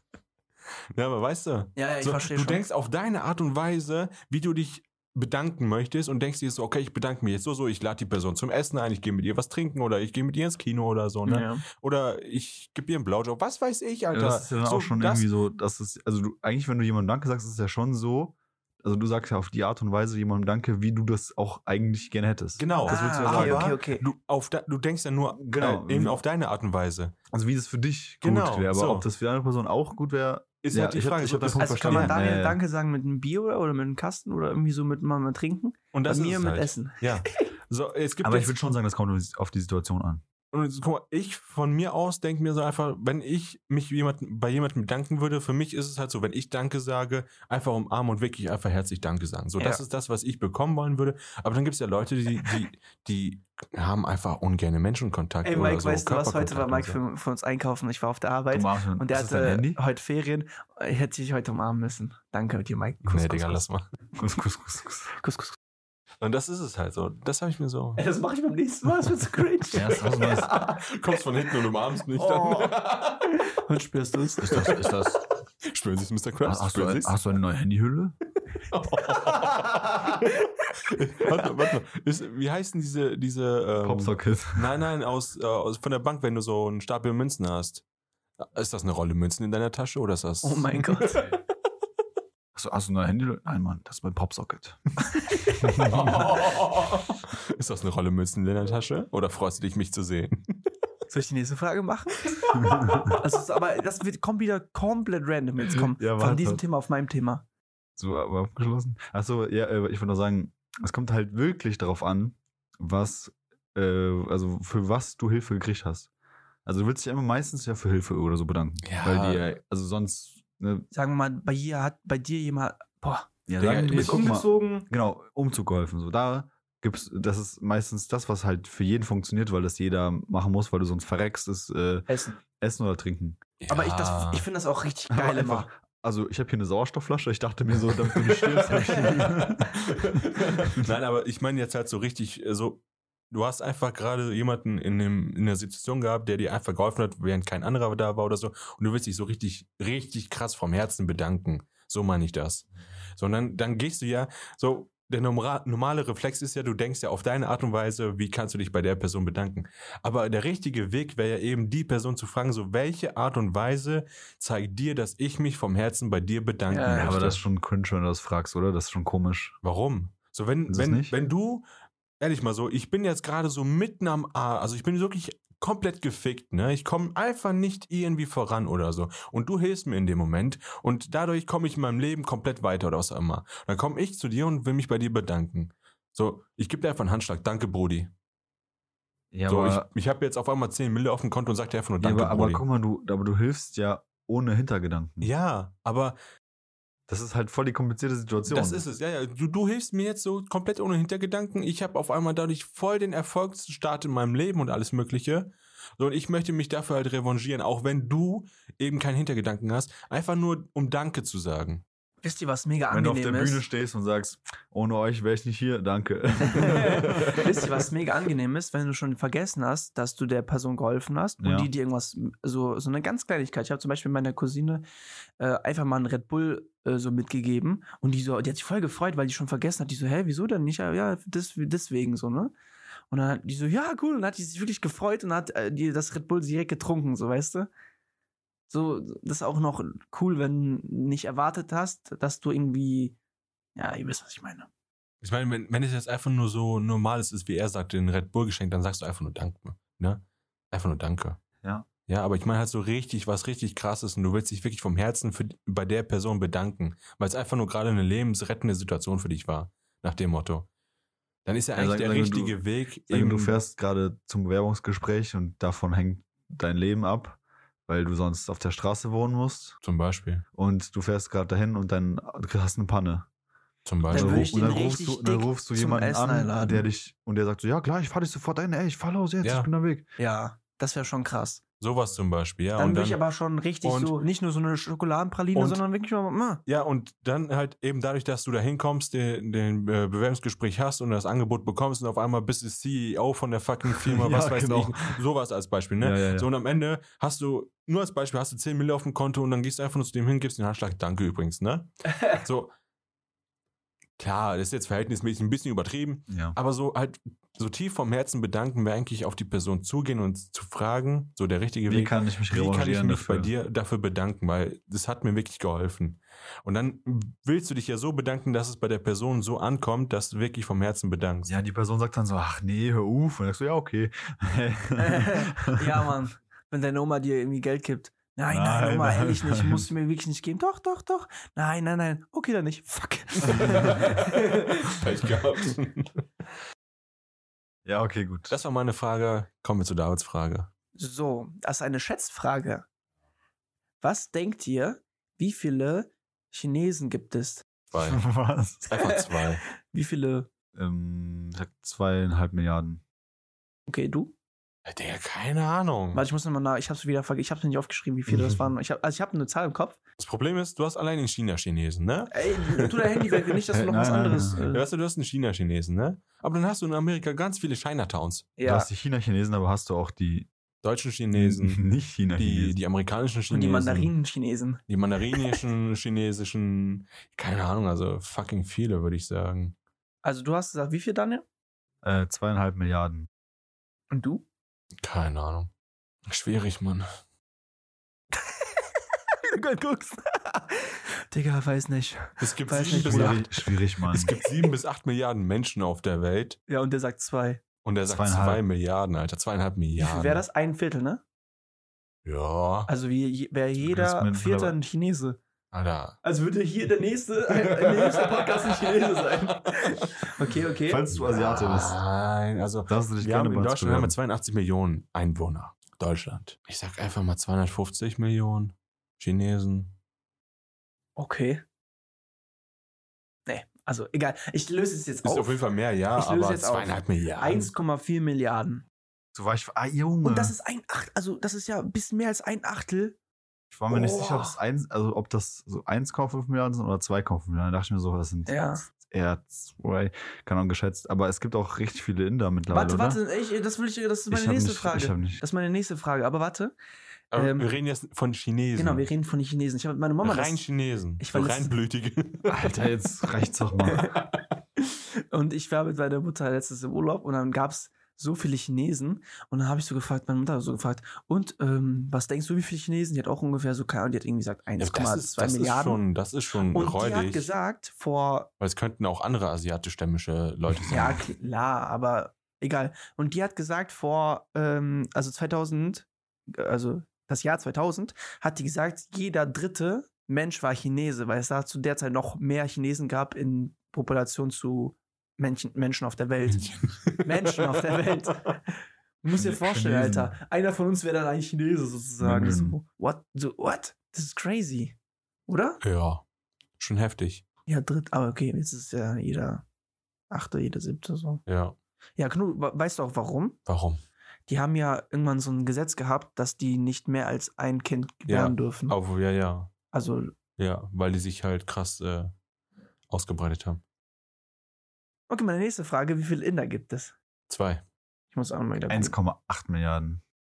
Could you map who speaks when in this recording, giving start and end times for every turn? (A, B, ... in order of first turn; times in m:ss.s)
0:00.9-0:15.3 A
0:01.8-0:02.6 B
0:11.2-0:11.6 B
0:14.1-0:23.7 C
0:22.6-0:27.1 A
0:22.9-0:24.0 B
0:25.4-0:26.2 C
0:27.3-0:32.6 C
0:28.2-0:29.0 A
0:30.6-0:32.2 A
0:31.5-0:37.4 B
0:35.9-0:38.5 A
0:38.2-0:40.2 C
0:40.5-0:57.0 A
0:55.4-1:03.6 B
0:58.5-0:59.8 C
1:03.0-1:03.8 A
1:04.2-1:05.2 C
1:05.2-1:05.6 B
1:06.2-1:08.0 A
1:08.0-1:10.8 B
1:09.7-1:10.5 C
1:10.4-1:13.3 A
1:12.1-1:14.7 B
1:14.4-1:15.2 C
1:14.5-1:17.1 A
1:16.4-1:18.2 C
1:18.7-1:27.8 A
1:19.0-1:20.5 B
1:23.8-1:24.8 C
1:28.5-1:31.3 A
1:30.4-1:31.3 B
1:32.5-1:34.8 C
1:35.0-1:36.4 B
1:35.6-1:36.3 C
1:35.8-1:40.6 A
1:41.1-1:47.4 B
1:42.5-1:43.2 C
1:45.6-1:46.6 C
1:48.0-1:56.1 C
1:56.6-2:00.9 C
1:58.8-1:59.4 A
2:00.9-2:04.9 B
2:03.5-2:13.4 C
2:03.6-2:04.3 A
2:12.1-2:12.4 B
2:13.6-2:14.4 A
2:13.7-2:15.7 B
2:15.1-2:20.9 C
2:18.2-2:19.3 A
2:18.9-2:19.5 B
2:19.9-2:47.4 A
2:46.7-2:47.2 B
2:46.9-2:49.6 C
2:49.6-2:51.6 A
2:50.7-2:51.1 C
2:52.2-3:08.1 A
3:09.3-3:09.9 C
3:09.5-3:12.6 A
3:12.0-3:15.3 C
3:15.2-3:16.2 A
3:17.1-3:18.8 C
3:18.5-3:31.8 A
3:32.2-3:33.6 B
3:32.9-3:37.4 C
3:36.4-3:44.8 B
3:37.0-3:37.5 A
3:41.4-3:41.7 C
3:45.4-3:52.5 B
3:53.1-3:57.7 B
3:58.7-4:03.2 B
4:03.8-4:04.7 B
4:05.2-4:11.4 A
4:12.1-4:20.7 A
4:21.4-4:23.6 A
4:21.7-4:22.6 C
4:23.1-4:29.8 C
4:29.8-4:30.4 A
4:30.6-4:33.3 C
4:33.8-4:34.5 A
4:34.1-4:40.0 C
4:34.1-4:36.8 B
4:39.4-4:39.7 A
4:40.2-4:41.6 B
4:41.8-4:43.2 A
4:42.8-4:46.6 B
4:43.8-4:44.2 A
4:45.5-4:45.8 A
4:46.6-5:02.7 A
4:53.9-4:55.2 C
4:56.0-4:56.5 C
5:04.2-5:21.5 A
5:06.3-5:06.6 C
5:11.9-5:13.5 C
5:21.4-5:26.1 C
5:25.0-5:35.0 B
5:28.5-5:29.8 C
5:33.4-5:36.2 A
5:33.5-5:34.1 C
5:37.8-5:38.6 C
5:38.5-5:40.7 A
5:41.0-5:42.8 B
5:44.0-5:47.6 B
5:47.9-5:48.2 A
5:48.0-5:48.9 C
5:48.9-5:49.6 A
5:49.0-5:50.5 B
5:50.7-5:53.0 C
5:53.9-5:54.3 B
5:54.8-5:56.2 A
5:56.1-6:00.0 B
6:00.2-6:03.6 A
6:02.3-6:04.8 B
6:03.7-6:04.6 C
6:04.7-6:08.5 A
6:08.6-6:08.9 B
6:08.6-6:10.5 C
6:10.8-6:11.8 A
6:11.3-6:12.8 C
6:12.4-6:14.1 A
6:13.5-6:14.8 B
6:14.9-6:19.7 A
6:15.3-6:15.6 B
6:20.2-6:21.4 B
6:22.0-6:23.3 C
6:24.1-6:24.4 B
6:25.0-6:25.7 A
6:26.3-6:27.0 A
6:29.5-6:33.5 B
6:32.4-6:33.5 A
6:33.0-6:34.3 C
6:34.1-6:36.6 A
6:36.7-6:37.6 B
6:37.8-6:40.4 A
6:38.0-6:38.6 C
6:40.0-6:41.2 B
6:42.2-6:42.9 A
6:42.9-6:45.4 B
6:43.8-6:44.8 C
6:45.7-6:46.2 A
6:46.2-6:51.0 B
6:47.6-6:49.7 A
6:50.8-6:52.0 C
6:51.1-6:59.9 A
6:52.9-6:54.2 C
7:01.2-7:01.6 B
7:03.4-7:05.6 B
7:05.2-7:07.7 A
7:06.1-7:08.8 B
7:09.3-7:10.5 C
7:10.2-7:13.2 B
7:13.7-7:23.2 C
7:13.9-7:14.6 B
7:18.4-7:18.8 B
7:22.7-7:26.7 B
7:24.3-7:25.4 C
7:27.3-7:29.1 A
7:27.3-7:27.7 B
7:28.8-7:30.6 B
7:30.2-7:32.6 A
7:31.2-7:31.7 B
7:32.5-7:34.1 C
7:33.9-7:34.2 B
7:34.8-7:46.0 B
7:44.8-7:47.5 A
7:46.7-7:48.5 B
7:48.6-7:51.2 A
7:50.9-8:08.6 B
8:06.6-8:07.6 A
8:09.2-8:14.9 B
8:09.3-8:10.3 C
8:12.2-8:12.8 C
8:15.5-8:15.8 B
8:15.8-8:16.2 A
8:16.8-8:17.4 A
8:17.7-8:19.6 B
8:20.3-8:21.4 B
8:21.4-8:21.7 A
8:22.2-8:23.6 B
8:23.6-8:24.0 A
8:24.5-8:29.0 B
8:28.3-8:29.7 A
8:29.9-8:30.4 B
8:30.6-8:32.3 A
8:33.1-8:33.8 A
8:35.3-8:37.1 B
8:37.5-8:37.8 A
8:38.3-8:39.1 B
8:38.9-8:40.2 C